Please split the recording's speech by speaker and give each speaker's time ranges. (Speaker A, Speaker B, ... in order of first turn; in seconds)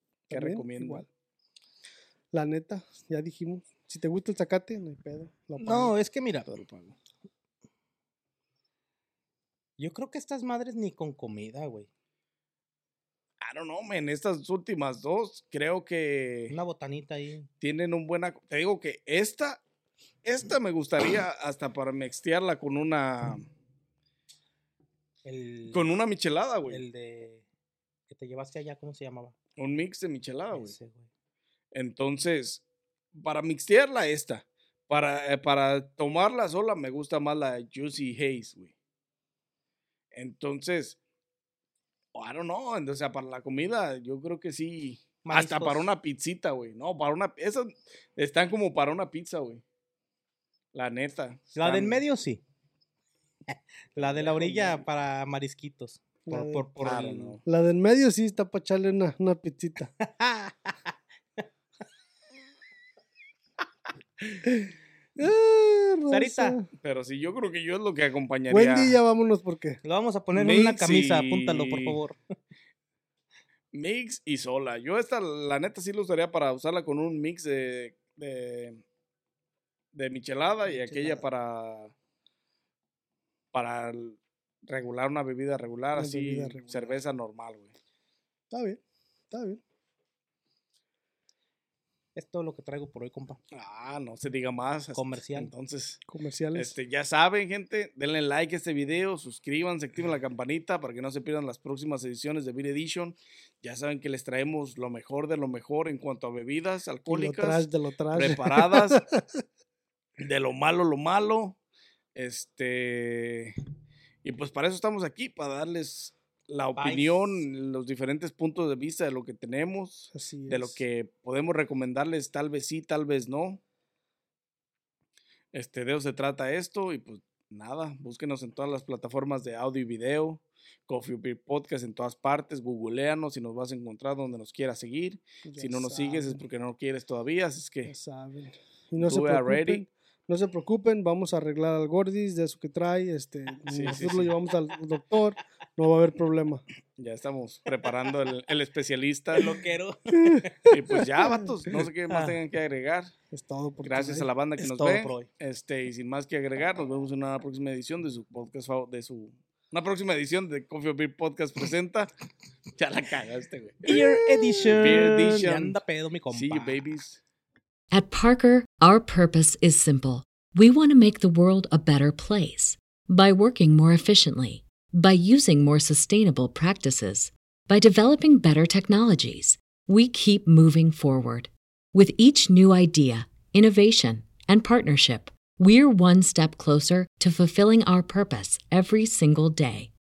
Speaker A: 0.3-1.1, 2.3-5.9, 56.3-56.7, 57.5-59.9, 64.5-66.7, 68.5-69.8, 80.7-81.2, 85.9-87.0, 88.5-89.6, 96.1-96.7, 107.1-109.2, 120.1-120.8, 135.4-136.4, 137.9-146.6, 150.1-151.6, 153.3-154.3, 163.9-164.9
Speaker B: 0.3-1.0, 6.5-6.9, 13.4-16.6, 17.6-19.6, 20.2-23.5, 25.7-26.8, 29.6-30.8, 31.7-32.6, 33.1-38.7, 40.1-41.0, 42.1-49.6, 50.7-52.0, 54.0-54.8, 56.8-57.4, 66.8-69.0, 70.3-72.0, 73.7-78.8, 79.9-81.9, 83.5-87.7, 93.5-96.0, 96.5-109.0, 110.2-111.6, 112.1-113.5, 114.2-123.6, 125.5-137.9, 139.0-139.8, 143.7-144.3, 146.9-149.6, 150.7-153.1, 153.8-162.1, 162.8-164.0, 164.6-165.8, 166.3-167.2
Speaker C: 5.6-6.5, 9.8-11.9, 16.5-17.5, 25.2-25.9, 26.7-27.4, 28.1-29.3, 30.5-31.1, 45.2-45.9, 51.5-52.4, 53.5-57.4, 60.0-60.7, 66.1-66.6, 69.8-72.2, 92.1-93.4, 94.9-95.5, 116.8-117.4, 149.3-150.7, 152.1-152.3, 154.6-155.3, 163.8-166.8
Speaker D: 167.9-189.9